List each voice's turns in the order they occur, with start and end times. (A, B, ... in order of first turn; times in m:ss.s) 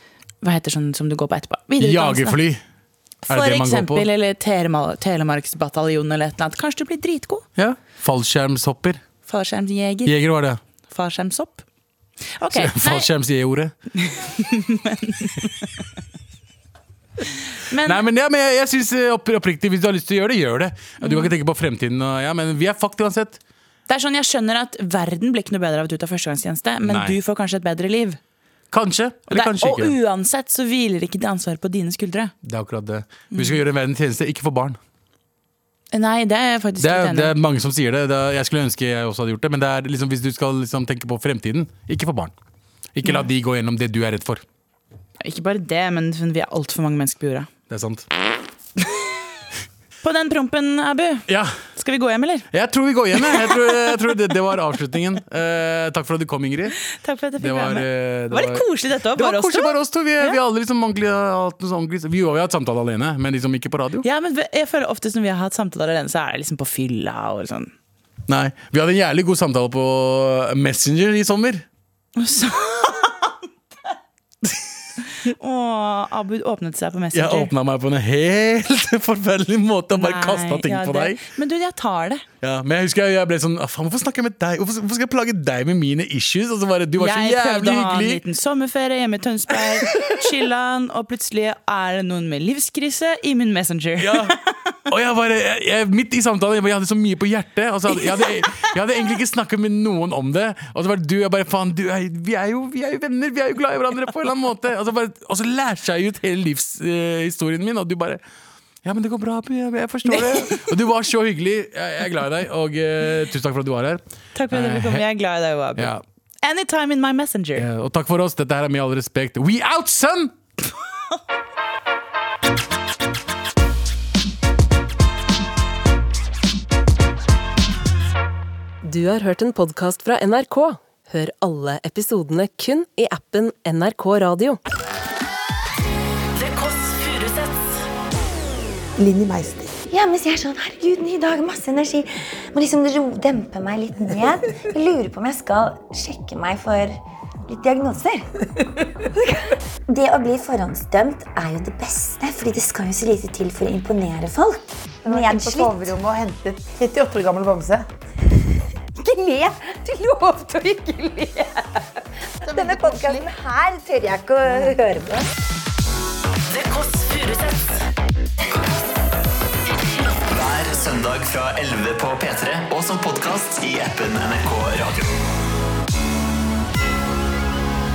0:00.4-0:02.4 A
0:01.8-0:02.6 B
0:03.2-0:07.5 A
0:03.3-0:04.1 B
0:07.6-0:09.0 B
0:09.3-0:10.2 A
0:10.0-0:10.6 B
0:10.9-0:11.6 A
0:12.4-0:13.1 A
0:12.5-0:13.7 B
0:14.0-0:15.6 A
0:17.6-0:18.0 A
0:17.8-0:23.4 B
0:21.0-0:21.3 A
0:23.9-0:28.2 A
0:26.8-0:27.2 B
0:28.7-0:30.0 B
0:29.3-0:32.3 A
0:32.4-0:34.8 B
0:33.3-0:33.6 A
0:35.9-0:37.4 A
0:36.8-0:42.3 B
0:43.0-0:44.4 B
0:45.2-0:47.5 A
0:47.7-0:48.1 B
0:50.0-0:52.5 A
0:51.3-0:51.6 B
0:52.5-0:56.8 B
0:53.2-0:53.9 A
0:56.8-1:00.4 A
0:57.4-1:04.1 B
1:04.0-1:07.7 A
1:08.3-1:11.7 B
1:12.2-1:13.3 A
1:15.2-1:17.5 A
1:17.1-1:21.2 B
1:20.0-1:22.2 A
1:22.4-1:28.2 B
1:27.0-1:34.4 A
1:34.0-1:48.2 B
1:48.8-1:55.0 B
1:50.4-1:50.6 A
1:54.4-1:57.7 A
1:55.8-1:56.0 B
1:57.6-2:00.4 B
2:08.8-2:14.6 C
2:16.3-2:17.9 D
2:19.0-2:19.8 E
2:19.9-2:28.3 F
2:29.2-2:36.0 F
2:35.1-2:37.9 E
2:39.0-2:41.9 F
2:42.4-2:45.3 F
2:42.5-2:43.2 E
2:46.5-2:47.9 D
2:49.8-2:55.1 D